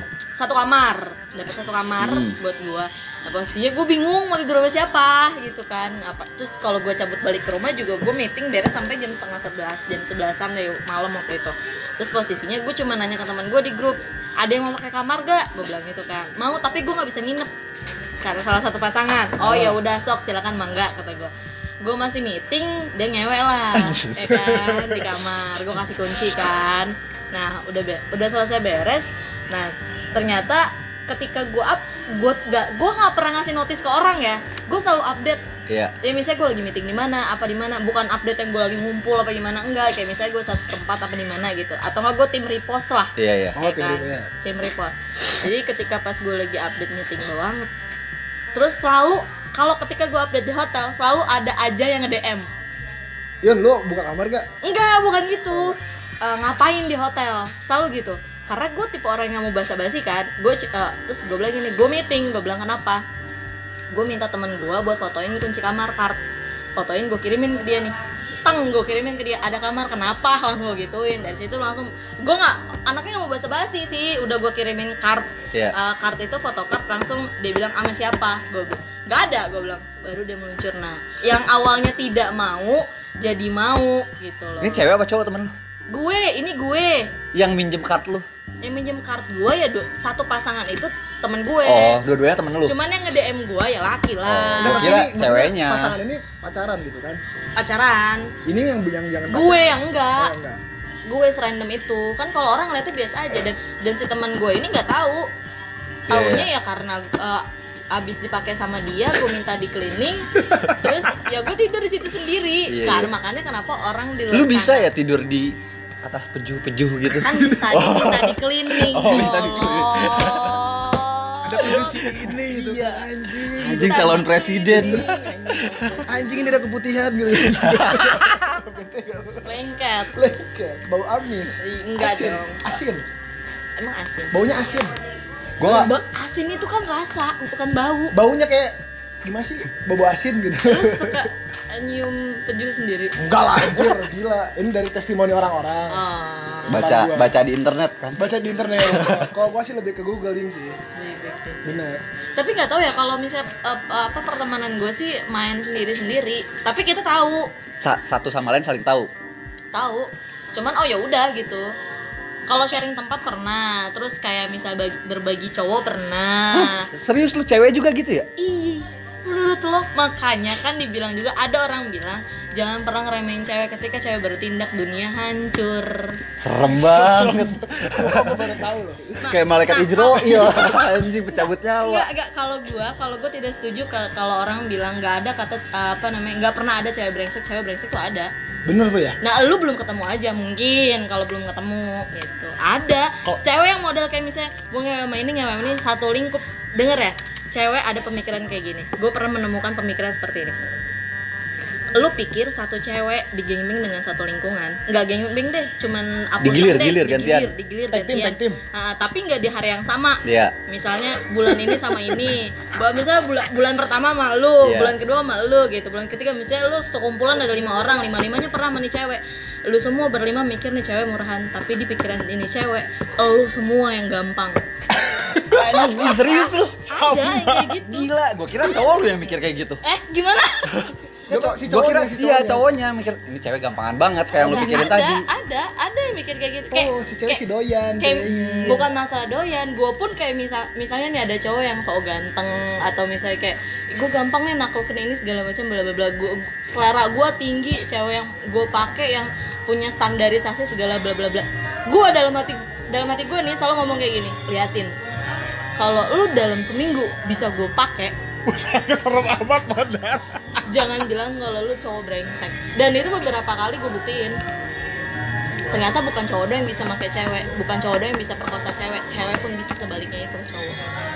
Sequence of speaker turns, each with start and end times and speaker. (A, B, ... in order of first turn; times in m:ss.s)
0:00.4-0:17.5 A
0:02.0-0:02.4 B
0:18.2-0:21.3 A
0:19.4-0:19.8 C
0:21.8-0:35.4 A
0:23.7-0:25.0 B
0:35.7-0:35.9 B
0:36.0-0:47.7 A
0:43.2-0:43.6 B
0:43.5-0:44.3 C
0:48.5-0:52.5 A
0:53.4-0:54.5 C
0:54.6-1:03.0 A
1:03.9-1:06.2 A
1:06.8-1:24.8 A
1:24.6-1:25.5 B
1:25.9-1:27.1 A
1:27.3-1:28.2 B
1:28.6-1:32.0 A
1:31.6-1:32.7 B
1:32.6-1:35.0 A
1:34.2-1:35.9 B
1:34.6-1:37.2 C
1:37.6-1:38.3 A
1:38.4-1:40.6 C
1:39.3-1:40.3 A
1:41.1-1:45.3 A
1:46.1-1:46.5 B
1:46.1-1:54.9 A
1:52.7-1:53.1 B
1:54.3-2:00.6 B
1:57.1-1:58.0 C
1:57.2-2:03.0 A
1:59.0-1:59.7 C
2:01.4-2:04.1 C
2:01.6-2:02.7 B
2:03.5-2:06.0 B
2:03.6-2:06.5 A
2:04.7-2:05.2 C
2:06.0-2:09.5 C
2:07.5-2:08.5 B
2:09.4-2:10.1 A
2:10.1-2:13.0 C
2:11.6-2:12.6 A
2:13.8-2:14.4 A
2:14.3-2:14.9 C
2:15.6-2:15.9 B
2:15.6-2:18.2 A
2:18.1-2:21.3 C
2:20.6-2:23.2 A
2:23.2-2:26.0 C
2:23.6-2:24.0 B
2:25.9-2:26.8 A
2:26.7-2:28.2 B
2:26.7-2:27.3 C
2:28.2-2:30.8 C
2:28.8-2:29.3 B
2:30.9-2:31.7 A
2:31.6-2:32.0 C
2:32.4-2:37.5 A
2:37.8-2:39.1 B
2:39.7-2:41.7 A
2:42.5-2:46.9 A
2:46.5-2:48.3 B
2:48.4-2:56.2 A
2:56.4-2:58.6 B
2:56.7-2:59.3 C
2:59.2-3:08.3 A
2:59.3-3:02.1 B
3:00.1-3:00.8 C
3:08.6-3:09.2 C
3:09.2-3:20.6 A
3:21.9-3:44.6 A
3:26.4-3:27.5 B
3:27.9-3:28.6 C
3:30.2-3:30.6 B
3:34.6-3:34.9 B
3:45.2-3:46.1 C
3:45.4-3:46.8 B
3:46.0-3:48.1 A
3:46.9-3:47.7 C
3:47.6-3:49.8 B
3:49.8-3:50.9 A
3:51.3-3:52.6 C
3:51.3-3:55.2 B
3:54.3-3:57.4 A
3:56.7-3:58.9 C
3:58.0-4:14.9 A
4:15.8-4:18.1 A
4:18.5-4:20.6 C
4:20.6-4:24.4 A
4:25.7-4:30.8 A